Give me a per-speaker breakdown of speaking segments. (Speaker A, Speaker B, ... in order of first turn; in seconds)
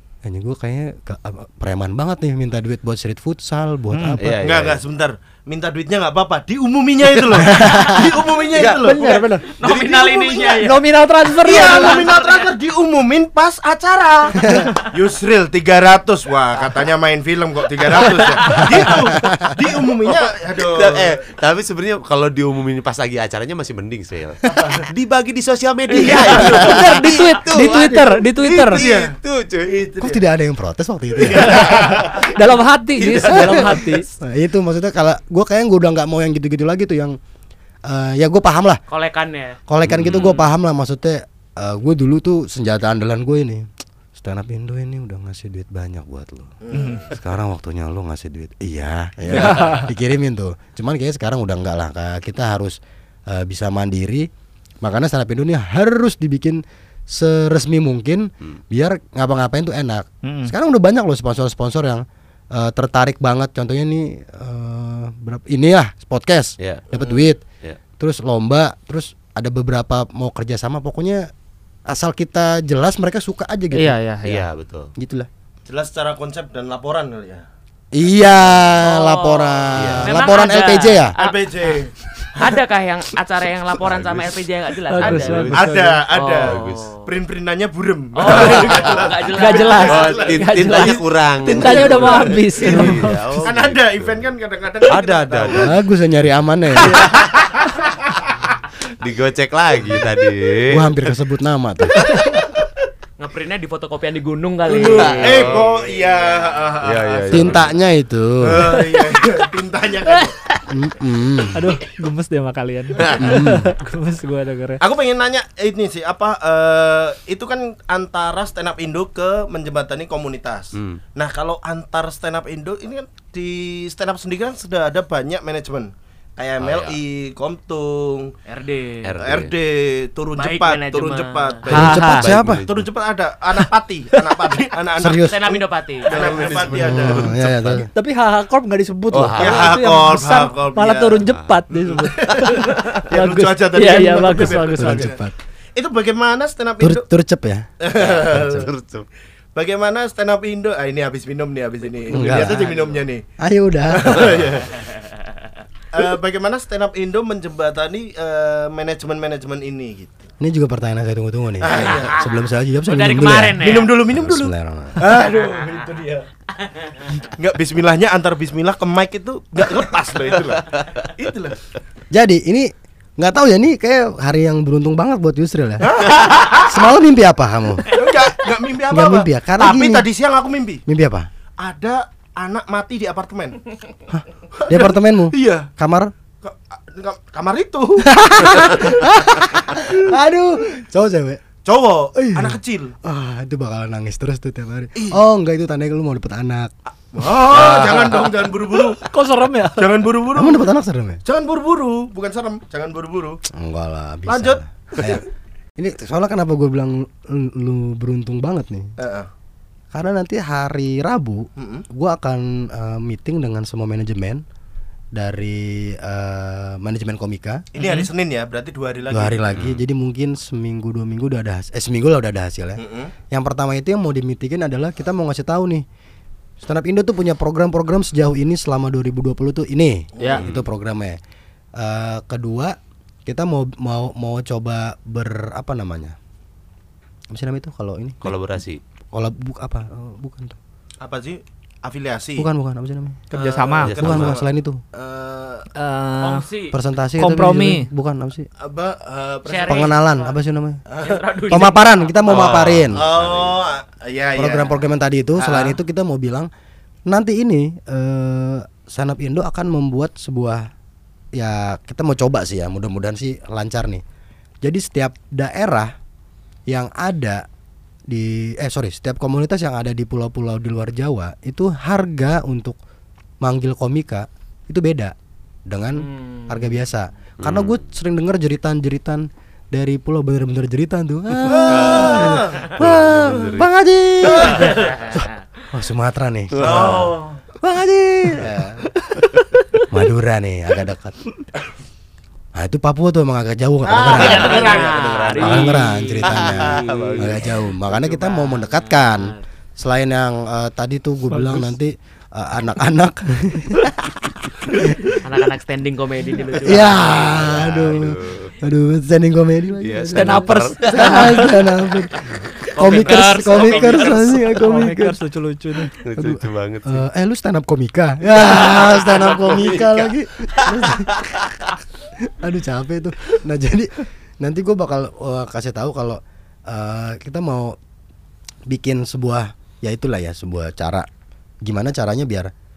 Speaker A: 0.2-4.3, 7.4-8.1, 14.4-14.7, 19.2-19.5, 26.4-27.0, 30.0-31.7, 33.2-37.2, 37.9-38.8, 39.7-46.6, 47.1-52.8, 53.3-54.3, 54.8-67.4, 68.0-71.3, 71.9-74.0, 75.0-75.3, 77.9-81.2, 92.6-93.0, 95.5-97.0, 100.7-102.0, 107.3-108.8, 110.7-111.6, 113.2-113.7, 131.7-132.6, 135.0-135.4, 136.8-137.9, 144.7-145.3, 146.8-147.7, 148.3-148.7, 152.1-152.7, 153.4-154.4, 160.4-165.1, 172.1-175.9, 176.7-177.9, 178.9-180.1, 180.9-181.3, 184.1-186.1, 188.1-191.4, 192.2-198.3, 200.3-201.2, 203.5-205.2, 205.8-208.9, 209.9-214.4, 215.2-217.6, 219.1-225.8, 226.6-231.2, 231.8-232.8, 233.3-236.2, 237.3-238.3, 239.1-240.6, 242.4-243.2, 244.0-244.8, 246.7-248.5, 249.7-250.8, 251.5-253.1, 254.4-256.5, 257.1-260.7, 261.4-264.0, 264.6-265.9, 266.7-267.4, 268.1-272.8, 273.4-275.1, 275.7-288.8, 289.9-291.2, 292.6-294.6, 295.4-303.9, 304.6-305.2, 306.7-315.2, 316.2-321.5, 322.2-327.8, 328.7-331.1, 331.6-332.5
Speaker B: 3.9-4.2, 8.8-9.5, 10.5-12.1, 18.5-18.9, 26.1-28.8, 31.3-34.0, 46.7-47.0, 49.4-49.8, 60.2-60.5, 73.7-74.5, 84.9-86.0, 89.3-93.4, 111.5-114.8, 131.7-132.3, 137.9-145.1, 199.1-200.0, 217.8-218.1, 243.3-244.0, 245.8-246.4, 247.2-247.9, 289.1-289.4, 301.3-301.7, 310.1-311.6, 314.6-315.9
Speaker C: 4.2-4.8, 8.6-10.0, 18.1-18.6, 20.1-29.7, 31.8-32.3, 33.0-33.9, 39.9-40.4, 49.4-49.8, 66.6-66.9, 74.2-74.9, 79.8-80.1, 83.8-84.4, 85.0-85.7, 86.4-86.9, 88.3-89.0, 89.8-94.3, 94.8-95.7, 97.0-97.3, 99.0-100.9, 102.0-102.5, 104.9-105.9, 106.8-107.7, 113.0-113.4, 120.7-121.0, 126.6-127.0, 129.0-129.5, 131.7-132.9, 136.1-137.8, 139.1-139.8, 141.3-141.6, 147.9-149.1, 170.2-171.1, 238.2-238.8, 243.8-244.4, 252.3-253.7, 277.4-277.8, 281.7-283.7, 286.5-287.1, 294.1-297.6, 306.7-308.6, 309.8-311.6, 312.1-313.0, 316.0-317.0, 318.4-321.7
Speaker D: 4.4-9.0, 9.7-10.6, 11.4-21.2, 24.6-24.8, 25.9-26.6, 28.7-30.2, 31.2-32.2, 46.6-47.0, 66.9-67.3, 75.7-77.5, 81.2-82.6, 85.0-86.5, 87.0-90.3, 91.6-95.8, 96.9-97.2, 104.7-107.7, 108.4-110.4, 114.8-128.3, 129.2-131.9, 132.7-137.8, 139.4-145.2, 145.8-147.0, 147.8-148.7, 149.6-153.2, 153.9-154.9, 155.9-160.2, 161.6-162.2, 163.6-166.3, 167.4-171.6, 175.8-176.8, 177.9-180.8, 181.6-183.7, 184.6-185.7, 186.4-190.1, 191.6-192.9, 197.1-199.1, 199.8-200.7, 201.2-203.4, 204.3-205.2, 209.0-209.3, 211.6-211.8, 217.7-219.4, 222.8-223.1, 230.2-230.5, 241.0-242.4, 243.3-244.4, 244.9-245.7, 248.6-249.9, 250.9-251.2, 252.9-254.7, 281.5-282.8, 284.2-285.0, 286.6-287.4, 293.9-295.6
Speaker E: 9.1-10.8, 11.5-12.5, 38.9-40.5, 78.8-81.7, 82.4-85.5, 86.1-87.0, 88.2-90.4, 103.2-105.7, 128.5-129.1, 130.4-131.6, 135.1-136.7, 152.0-153.0, 154.8-155.3, 161.8-162.3, 162.8-163.9, 165.2-165.9, 166.6-167.2, 246.2-246.8, 249.5-250.3, 251.0-252.5, 255.4-255.7, 276.0-276.8, 284.6-285.4, 294.1-299.4, 305.2-307.5, 312.8-314.6